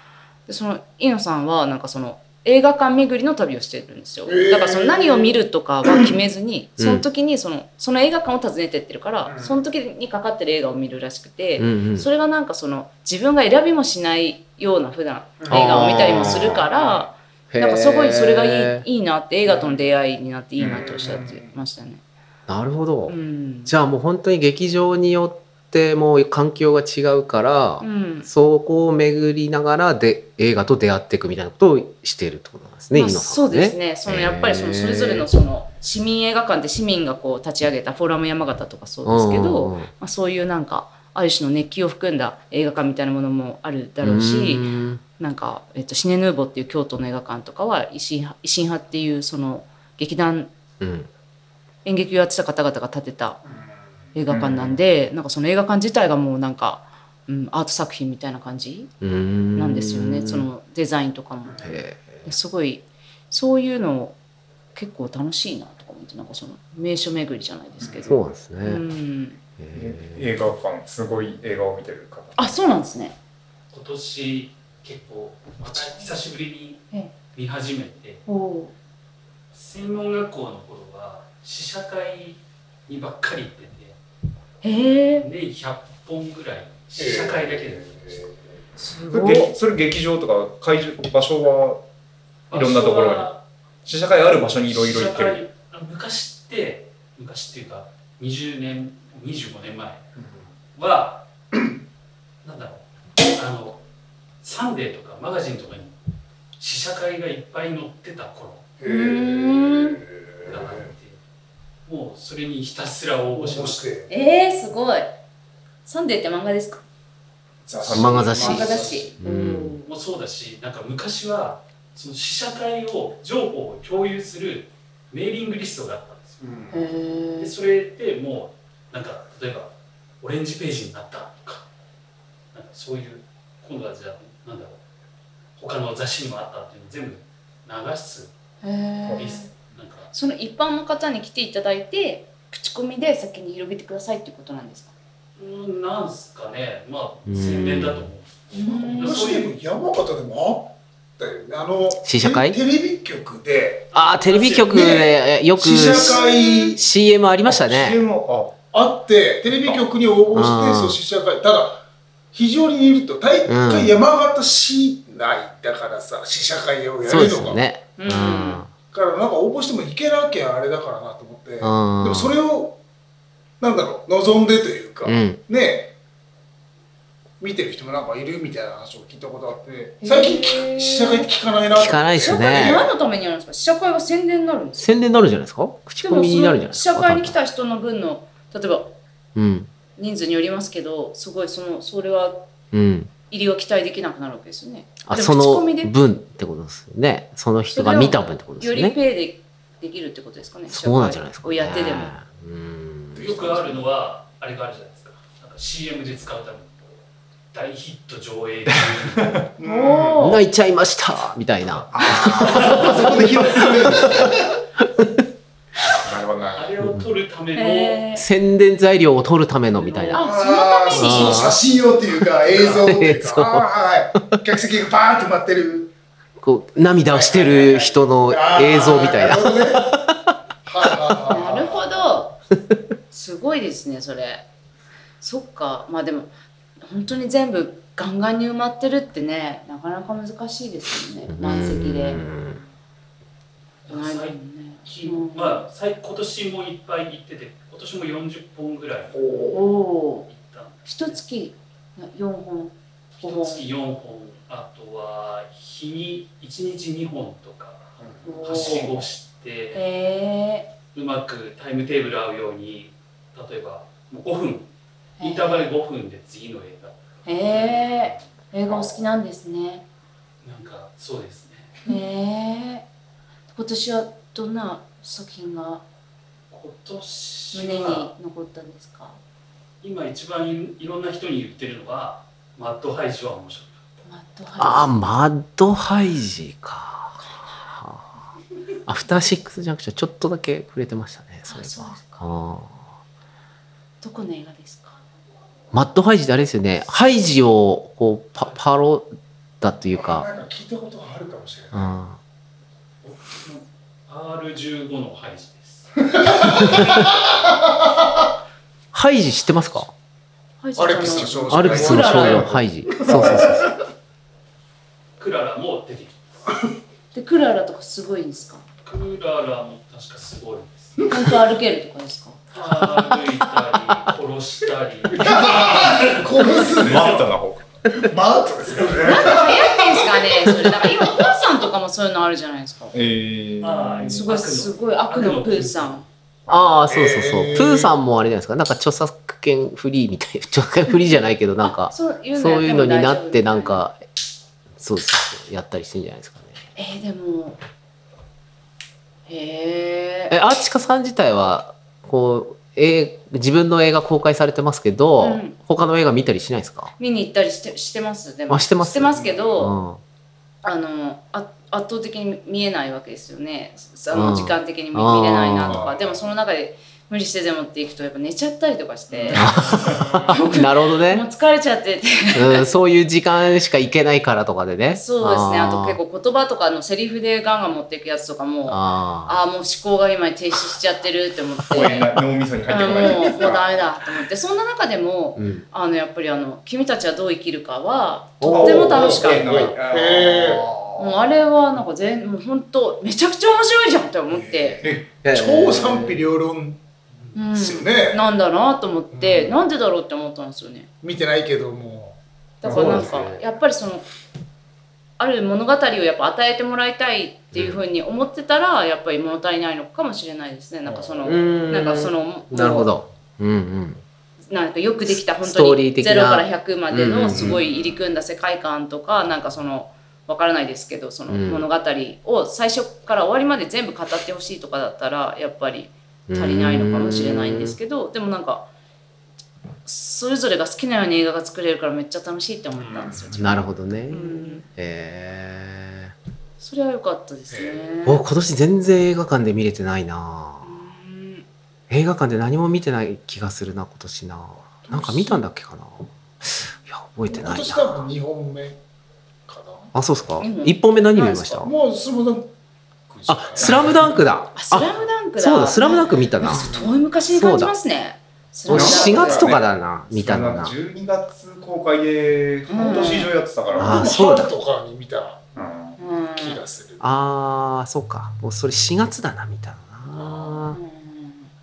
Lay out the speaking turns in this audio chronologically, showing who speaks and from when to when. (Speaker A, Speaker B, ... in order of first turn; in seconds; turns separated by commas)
Speaker A: 0.5-22.0, Speaker B: 4.2-6.1, Speaker C: 6.8-7.0, Speaker B: 9.2-9.6, Speaker C: 11.6-12.1, Speaker B: 15.4-17.1, Speaker C: 15.5-16.7, Speaker C: 17.5-18.9, Speaker B: 19.5-19.8, Speaker B: 20.6-21.5, Speaker C: 22.5-35.3, Speaker A: 23.1-23.7, Speaker A: 27.8-28.3, Speaker A: 32.9-50.5, Speaker C: 39.0-39.9, Speaker C: 44.0-45.0, Speaker C: 50.8-51.1, Speaker A: 51.8-53.4, Speaker A: 54.1-58.9, Speaker D: 54.3-54.8, Speaker C: 59.0-60.5, Speaker A: 59.5-61.6, Speaker C: 61.6-62.3, Speaker A: 62.2-64.2, Speaker A: 64.7-69.4, Speaker B: 67.8-68.1, Speaker C: 68.0-68.8, Speaker C: 69.6-70.2, Speaker D: 69.7-72.4, Speaker A: 72.4-73.2, Speaker E: 73.7-78.2, Speaker A: 78.2-78.7, Speaker E: 79.5-84.0, Speaker A: 84.6-85.3, Speaker E: 85.2-88.1, Speaker B: 87.0-88.3, Speaker A: 88.8-89.5, Speaker D: 89.1-91.8, Speaker E: 92.5-93.4, Speaker D: 92.5-93.3, Speaker D: 93.8-95.5, Speaker E: 94.7-100.0, Speaker B: 100.2-100.4, Speaker E: 100.7-101.7, Speaker E: 102.4-103.8, Speaker E: 104.4-105.9, Speaker E: 106.6-108.7, Speaker B: 108.8-110.9, Speaker A: 108.8-110.0, Speaker E: 110.4-111.2, Speaker E: 111.8-113.9, Speaker B: 113.3-114.1, Speaker A: 114.1-115.1, Speaker A: 115.8-116.8, Speaker B: 117.6-119.2, Speaker D: 117.8-118.2, Speaker C: 117.9-119.8, Speaker A: 118.2-119.9, Speaker E: 119.8-126.4, Speaker B: 126.4-126.8, Speaker A: 126.7-127.5, Speaker E: 127.4-131.7, Speaker E: 132.5-134.8, Speaker E: 135.6-138.3, Speaker A: 138.6-139.5, Speaker D: 139.1-139.4, Speaker E: 139.2-140.1, Speaker A: 140.1-144.9, Speaker E: 145.4-149.5, Speaker C: 147.3-148.1, Speaker A: 148.5-149.2, Speaker B: 148.6-156.8, Speaker C: 152.0-152.6, Speaker C: 153.9-156.2, Speaker E: 154.0-154.4, Speaker A: 155.9-156.7, Speaker C: 156.7-158.0, Speaker D: 157.4-158.6, Speaker B: 158.7-167.6, Speaker D: 159.5-159.8, Speaker C: 160.3-161.0, Speaker C: 163.5-164.0, Speaker C: 167.0-168.7, Speaker A: 168.0-168.6, Speaker B: 168.9-172.8, Speaker C: 171.6-172.4, Speaker B: 173.6-175.9, Speaker C: 175.0-175.4, Speaker B: 177.4-182.9, Speaker A: 180.0-181.3, Speaker C: 181.7-182.8, Speaker A: 182.2-184.9, Speaker C: 184.8-187.3, Speaker A: 186.0-188.9, Speaker C: 189.3-189.7, Speaker A: 189.9-192.5, Speaker C: 192.7-193.1, Speaker A: 193.3-195.9, Speaker C: 195.0-199.0, Speaker A: 197.7-202.1, Speaker C: 200.7-203.3, Speaker B: 203.1-203.9, Speaker E: 203.2-207.0, Speaker E: 207.5-209.4, Speaker D: 208.9-209.5, Speaker B: 209.6-210.2, Speaker A: 209.6-210.4, Speaker C: 210.2-215.1, Speaker D: 211.9-214.4, Speaker B: 212.2-214.2, Speaker D: 215.8-216.7, Speaker E: 216.5-218.0, Speaker C: 216.8-217.1, Speaker A: 217.6-218.2, Speaker C: 218.2-220.2, Speaker A: 220.1-221.6, Speaker B: 220.1-225.9, Speaker C: 220.9-221.6, Speaker C: 222.4-223.7, Speaker C: 226.4-230.3, Speaker B: 227.1-230.0, Speaker B: 230.6-232.1, Speaker A: 231.3-232.3, Speaker A: 233.1-234.4, Speaker A: 235.2-236.3, Speaker A: 236.8-242.2, Speaker C: 241.3-242.6, Speaker E: 243.8-249.2, Speaker A: 243.9-245.6, Speaker B: 249.1-249.6, Speaker A: 249.5-250.3, Speaker E: 250.3-251.2, Speaker A: 250.8-253.6, Speaker E: 253.2-257.9, Speaker A: 258.2-259.0, Speaker E: 258.4-259.8, Speaker A: 259.7-260.7, Speaker E: 260.9-264.7, Speaker A: 265.2-265.7, Speaker E: 265.2-267.0, Speaker A: 267.2-269.8, Speaker E: 270.4-271.8, Speaker A: 271.9-272.9, Speaker A: 273.5-275.8, Speaker E: 276.5-278.1, Speaker A: 277.5-279.2, Speaker E: 279.8-283.8, Speaker A: 284.1-284.9, Speaker C: 284.6-288.1, Speaker A: 287.2-287.6, Speaker C: 288.9-292.8, Speaker A: 291.5-292.2, Speaker A: 294.0-295.0, Speaker C: 295.7-300.3, Speaker B: 299.9-301.9, Speaker C: 301.7-302.2, Speaker E: 303.0-306.8, Speaker B: 306.1-307.5, Speaker C: 306.6-307.0, Speaker C: 308.9-309.9, Speaker A: 310.6-312.5, Speaker B: 310.8-313.6, Speaker C: 311.5-313.7, Speaker D: 313.1-313.4, Speaker E: 315.2-316.2, Speaker A: 317.1-318.6, Speaker E: 318.8-321.1, Speaker A: 321.1-322.4, Speaker E: 322.5-327.1, Speaker B: 325.1-327.2, Speaker D: 326.8-329.4, Speaker B: 328.7-330.1, Speaker A: 329.0-332.9, Speaker D: 332.9-334.2, Speaker E: 333.6-336.0, Speaker A: 334.1-336.0, Speaker C: 336.5-344.0, Speaker B: 336.9-337.9, Speaker A: 341.6-343.8, Speaker C: 344.8-346.6, Speaker A: 346.8-347.6, Speaker A: 349.3-350.4, Speaker C: 350.3-356.9, Speaker A: 355.2-355.6, Speaker A: 357.0-359.8, Speaker C: 358.5-360.0, Speaker B: 359.1-359.5, Speaker A: 360.6-369.6, Speaker C: 364.1-365.8, Speaker B: 365.6-366.3, Speaker B: 369.2-370.3, Speaker D: 369.3-370.2, Speaker C: 369.3-371.2, Speaker A: 370.2-372.7, Speaker C: 372.3-376.0, Speaker A: 374.9-382.1, Speaker C: 378.7-379.4, Speaker D: 381.7-383.9, Speaker A: 382.7-389.8, Speaker C: 385.4-385.6, Speaker C: 388.4-389.0, Speaker B: 388.5-390.6, Speaker D: 388.5-391.2, Speaker A: 390.9-394.8, Speaker B: 394.3-396.8, Speaker D: 394.8-395.2, Speaker C: 395.2-396.2, Speaker A: 397.3-400.9, Speaker B: 397.5-398.2, Speaker B: 399.1-399.6, Speaker B: 401.0-402.2, Speaker A: 402.6-404.0, Speaker D: 402.6-403.4, Speaker C: 402.7-403.3, Speaker A: 405.2-412.9, Speaker C: 407.5-407.8, Speaker D: 411.0-411.3, Speaker C: 411.2-414.0, Speaker A: 414.5-428.7, Speaker C: 415.1-417.6, Speaker C: 421.3-421.6, Speaker C: 426.3-427.8, Speaker A: 429.9-434.6, Speaker B: 432.8-433.5, Speaker C: 433.3-436.1, Speaker A: 436.6-438.2, Speaker B: 437.5-437.8, Speaker C: 438.0-440.8, Speaker A: 440.6-441.4, Speaker C: 441.9-448.1, Speaker B: 444.8-445.4, Speaker B: 447.3-448.8, Speaker B: 449.5-449.9, Speaker C: 449.9-451.7, Speaker A: 450.4-451.7, Speaker B: 451.6-452.5, Speaker B: 453.1-453.9, Speaker C: 453.3-456.7, Speaker D: 453.6-453.9, Speaker A: 454.5-459.6, Speaker B: 456.4-456.9, Speaker C: 457.3-457.7, Speaker C: 458.7-460.7, Speaker D: 458.7-464.1, Speaker A: 462.7-463.3, Speaker B: 462.8-465.5, Speaker C: 463.8-464.5, Speaker D: 465.6-466.0, Speaker A: 466.0-466.6, Speaker B: 466.3-467.1, Speaker C: 467.0-470.8, Speaker A: 470.7-471.5